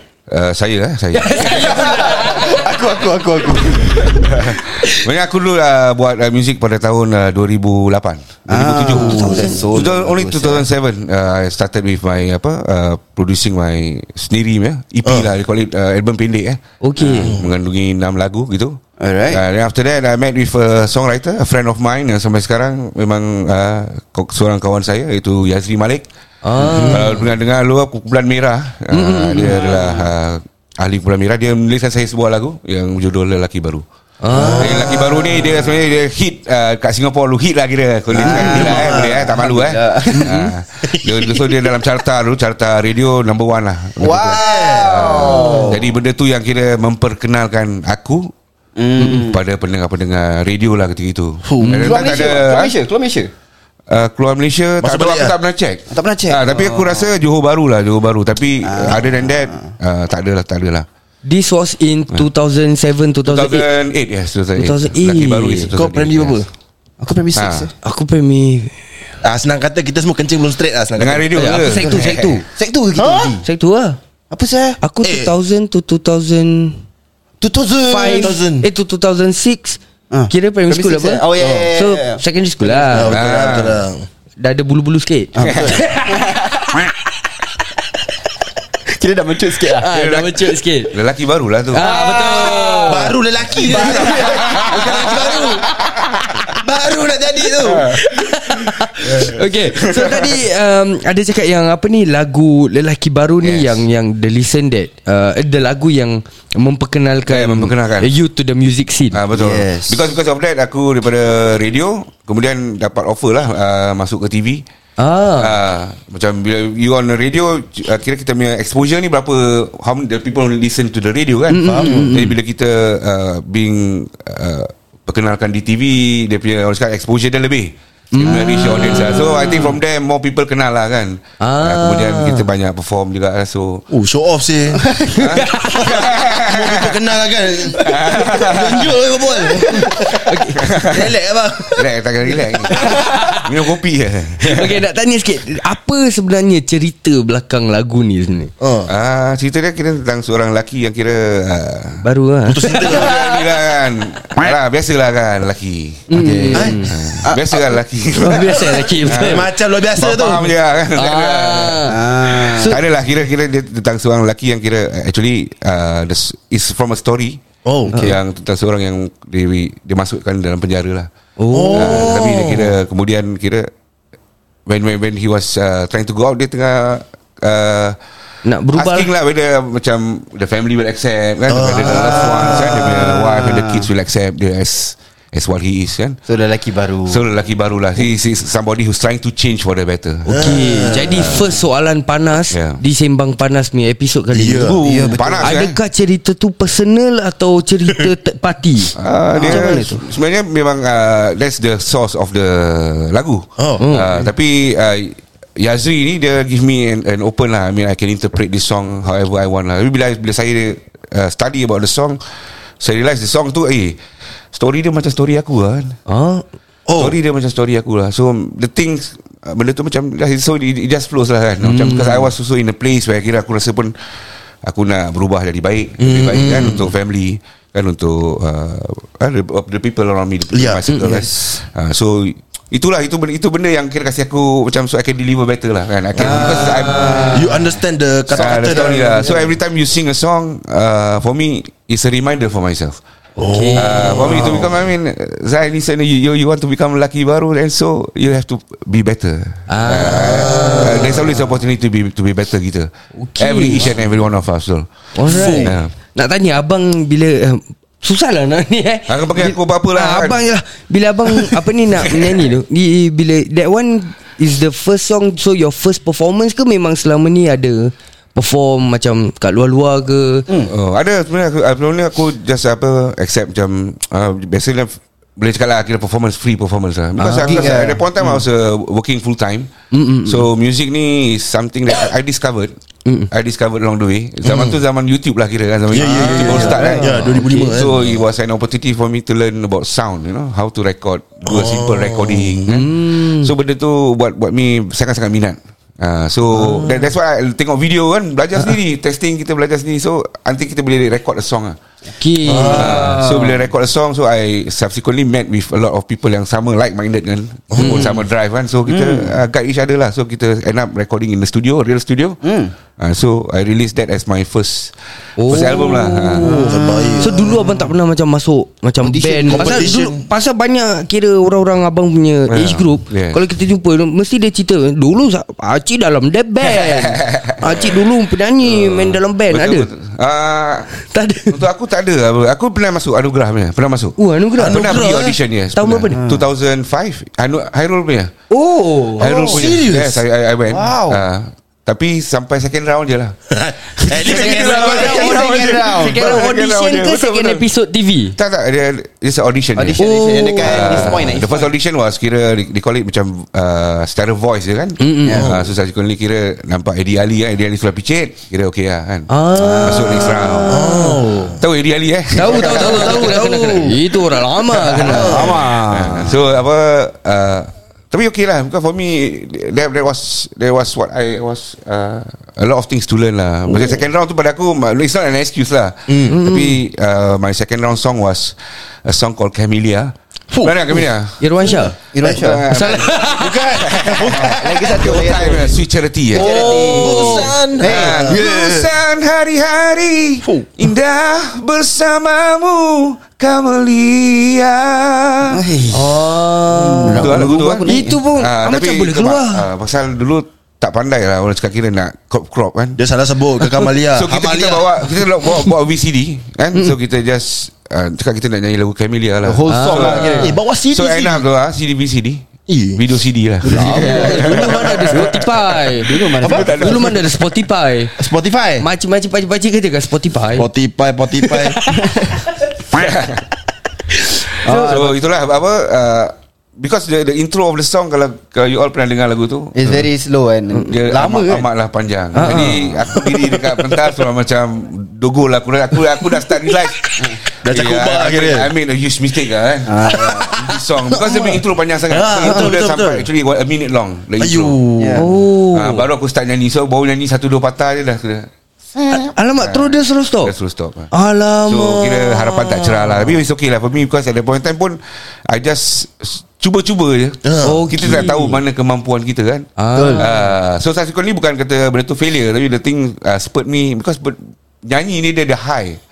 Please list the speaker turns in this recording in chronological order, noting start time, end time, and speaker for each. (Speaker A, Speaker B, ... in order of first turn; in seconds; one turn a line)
Speaker A: 0.3-2.1
Speaker B: 1.1-2.7
Speaker C: 1.5-4.3
Speaker A: 4.1-26.1
Speaker C: 8.5-10.7
Speaker B: 9.0-9.6
Speaker D: 9.1-9.4
Speaker B: 16.8-17.4
Speaker D: 17.2-17.5
Speaker C: 19.0-19.4
Speaker B: 26.4-27.3
Speaker D: 26.6-27.0
Speaker A: 26.6-33.9
Speaker B: 28.9-29.6
Speaker C: 29.4-30.1
Speaker B: 34.2-35.0
Speaker D: 34.3-35.2
Speaker A: 34.6-48.3
Speaker C: 38.1-40.3
Speaker D: 38.3-39.2
Speaker B: 38.3-38.6
Speaker B: 40.1-40.5
Speaker D: 40.9-41.2
Speaker C: 44.0-45.9
Speaker D: 44.3-45.5
Speaker C: 48.8-49.4
Speaker B: 49.0-49.2
Speaker A: 49.0-52.7
Speaker D: 51.5-52.2
Speaker C: 51.7-53.3
Speaker A: 53.9-60.9
Speaker D: 54.8-55.4
Speaker C: 55.9-57.1
Speaker C: 58.6-59.7
Speaker B: 61.2-63.7
Speaker A: 63.2-66.4
Speaker B: 64.6-65.7
Speaker D: 65.7-66.5
Speaker C: 67.0-67.7
Speaker A: 67.3-67.7
Speaker B: 67.8-68.8
Speaker D: 69.2-71.5
Speaker A: 71.0-72.4
Speaker B: 71.3-72.4
Speaker C: 71.5-73.4
Speaker D: 73.0-73.3
Speaker B: 73.4-74.0
Speaker C: 74.3-74.8
Speaker B: 74.8-76.8
Speaker D: 75.0-75.3
Speaker C: 77.4-78.4
Speaker B: 77.9-83.1
Speaker D: 78.1-78.7
Speaker C: 80.1-82.2
Speaker D: 81.4-81.7
Speaker D: 82.8-84.1
Speaker A: 83.1-83.8
Speaker B: 84.4-86.4
Speaker C: 85.3-86.9
Speaker A: 85.4-85.7
Speaker D: 85.5-85.8
Speaker C: 88.9-89.9
Speaker B: 89.8-90.9
Speaker A: 89.9-91.9
Speaker B: 91.7-95.6
Speaker C: 91.9-92.7
Speaker D: 91.9-95.7
Speaker C: 93.6-94.6
Speaker A: 94.3-95.3
Speaker D: 96.5-98.0
Speaker A: 97.7-97.9
Speaker B: 97.8-109.2
Speaker D: 99.0-99.3
Speaker A: 99.8-100.3
Speaker A: 103.4-103.8
Speaker A: 107.3-108.1
Speaker A: 109.1-114.6
Speaker C: 109.3-110.1
Speaker B: 115.0-115.6
Speaker A: 115.3-133.8
Speaker B: 121.5-122.3
Speaker D: 121.7-122.1
Speaker B: 128.1-129.7
Speaker B: 131.4-132.5
Speaker D: 133.9-134.9
Speaker C: 134.9-135.2
Speaker A: 135.1-137.0
Speaker B: 135.2-135.8
Speaker D: 135.5-141.9
Speaker A: 137.8-139.0
Speaker C: 139.4-139.9
Speaker B: 139.7-140.7
Speaker A: 140.6-141.1
Speaker A: 141.8-144.8
Speaker B: 142.7-143.4
Speaker B: 144.4-148.5
Speaker D: 148.6-148.9
Speaker A: 148.9-152.1
Speaker B: 152.0-153.0
Speaker D: 152.5-153.2
Speaker A: 152.8-156.1
Speaker B: 156.1-156.9
Speaker C: 156.1-157.8
Speaker D: 156.5-156.9
Speaker A: 156.9-171.1
Speaker B: 158.2-159.5
Speaker D: 159.1-160.5
Speaker B: 160.9-162.8
Speaker C: 161.8-162.8
Speaker D: 167.7-168.0
Speaker C: 167.9-168.2
Speaker B: 171.4-172.2
Speaker D: 171.5-172.7
Speaker A: 171.7-173.7
Speaker A: 174.7-178.0
Speaker B: 178.4-179.1
Speaker A: 178.7-186.2
Speaker D: 181.5-183.0
Speaker C: 181.9-183.9
Speaker C: 186.3-187.2
Speaker A: 187.1-190.5
Speaker D: 190.3-191.4
Speaker B: 190.3-194.7
Speaker A: 191.1-191.5
Speaker A: 192.5-192.8
Speaker D: 194.3-194.8
Speaker A: 194.6-195.8
Speaker C: 194.8-195.6
Speaker B: 195.4-198.9
Speaker A: 199.0-214.0
Speaker C: 199.4-200.0
Speaker D: 199.4-199.9
Speaker D: 203.6-203.8
Speaker B: 203.8-204.1
Speaker A: 214.5-216.0
Speaker B: 216.1-216.4
Speaker D: 216.9-217.2
Speaker A: 217.0-223.9
Speaker B: 221.6-222.3
Speaker A: 224.6-237.5
Speaker D: 226.0-226.9
Speaker D: 230.5-230.8
Speaker B: 230.9-231.3
Speaker C: 231.1-231.6
Speaker C: 236.2-237.6
Speaker B: 236.6-237.3
Speaker D: 237.3-239.2
Speaker A: 238.3-243.0
Speaker C: 238.3-239.5
Speaker B: 243.4-244.6
Speaker D: 243.4-244.8
Speaker A: 243.8-254.9
Speaker B: 249.7-251.3
Speaker D: 250.2-251.2
Speaker B: 253.2-253.9
Speaker B: 255.2-270.5
Speaker D: 255.2-255.8
Speaker A: 255.6-255.9
Speaker A: 259.1-260.4
Speaker A: 270.6-279.7
Speaker B: 277.2-277.8
Speaker C: 277.5-278.0
Speaker B: 279.9-280.5
Speaker A: 280.2-282.8
Speaker A: 283.3-301.8
Speaker B: 284.5-284.7
Speaker D: 285.9-288.0
Speaker B: 285.9-287.9
Speaker D: 291.5-292.7
Speaker B: 292.7-293.5
Speaker B: 296.5-297.1
Speaker B: 302.2-303.6
Speaker D: 302.5-303.1
Speaker A: 302.7-312.4
Speaker D: 307.8-308.0
Speaker B: 307.8-308.2
Speaker C: 312.4-312.7
Speaker A: 313.0-316.5
Speaker B: 315.4-329.9
Speaker D: 316.4-317.7
Speaker C: 316.7-317.4
Speaker D: 319.1-320.2
Speaker C: 319.4-319.9
Speaker A: 322.5-323.4
Speaker A: 326.7-328.1
Speaker A: 328.6-330.9
Speaker B: 330.9-331.6
Speaker A: 331.5-338.3
Speaker B: 334.2-335.1
Speaker D: 334.6-335.4
Speaker B: 335.8-336.2
Speaker C: 336.2-336.5
Speaker B: 338.5-339.6
Speaker A: 339.2-343.4
Speaker D: 339.4-340.2
Speaker C: 340.7-341.2
Speaker D: 343.5-345.4
Speaker A: 343.9-347.7
Speaker C: 344.2-346.4
Speaker B: 345.3-348.4
Speaker A: 348.4-350.0
Speaker C: 349.8-351.7
Speaker B: 350.0-351.3
Speaker A: 350.6-360.9
Speaker B: 355.0-355.4
Speaker D: 355.3-355.7
Speaker B: 359.3-361.2
Speaker C: 359.6-360.2
Speaker D: 360.7-361.6
Speaker A: 361.6-363.3
Speaker B: 362.4-365.5
Speaker D: 362.4-365.6
Speaker C: 365.1-366.4
Speaker A: 365.3-381.5
Speaker D: 376.1-376.4
Speaker B: 376.3-376.8
Speaker D: 380.5-381.0
Speaker B: 381.4-382.0
Speaker D: 381.7-382.4
Speaker C: 382.1-382.9
Speaker A: 382.2-395.6
Speaker B: 382.7-383.6
Speaker D: 383.4-384.8
Speaker C: 384.0-385.8
Speaker C: 386.3-388.5
Speaker D: 386.3-388.9
Speaker B: 386.5-387.5
Speaker D: 390.4-390.7
Speaker C: 395.5-398.2
Speaker B: 395.9-399.7
Speaker A: 397.1-403.0
Speaker D: 403.0-405.2
Speaker A: 404.1-417.6
Speaker C: 409.4-410.6
Speaker B: 409.7-410.6
Speaker D: 410.2-411.4
Speaker D: 412.7-413.0
Speaker C: 413.6-417.1
Speaker B: 413.7-418.1
Speaker D: 416.5-416.9
Speaker D: 418.2-418.9
Speaker C: 418.2-418.8
Speaker B: 418.8-420.7
Speaker D: 420.5-421.8
Speaker B: 421.3-422.4
Speaker C: 421.9-422.4
Speaker A: 422.9-423.4
Speaker B: 424.4-425.0
Speaker C: 424.6-425.2
Speaker A: 424.6-430.1
Speaker C: 429.8-431.7
Speaker A: 430.8-437.1
Speaker B: 432.3-433.3
Speaker C: 437.2-437.4
Speaker D: 437.6-438.7
Speaker A: 437.6-444.8
Speaker C: 439.9-440.8
Speaker D: 440.1-443.3
Speaker B: 442.4-442.7
Speaker D: 444.4-445.3
Speaker C: 445.0-445.3
Speaker B: 445.1-446.1
Speaker A: 445.7-448.5
Speaker B: 449.1-450.5
Speaker A: 449.5-451.1
Speaker B: 451.1-453.0
Speaker A: 451.7-466.0
Speaker D: 457.4-458.0
Speaker B: 457.6-458.6
Speaker B: 459.8-460.3
Speaker C: 459.9-460.3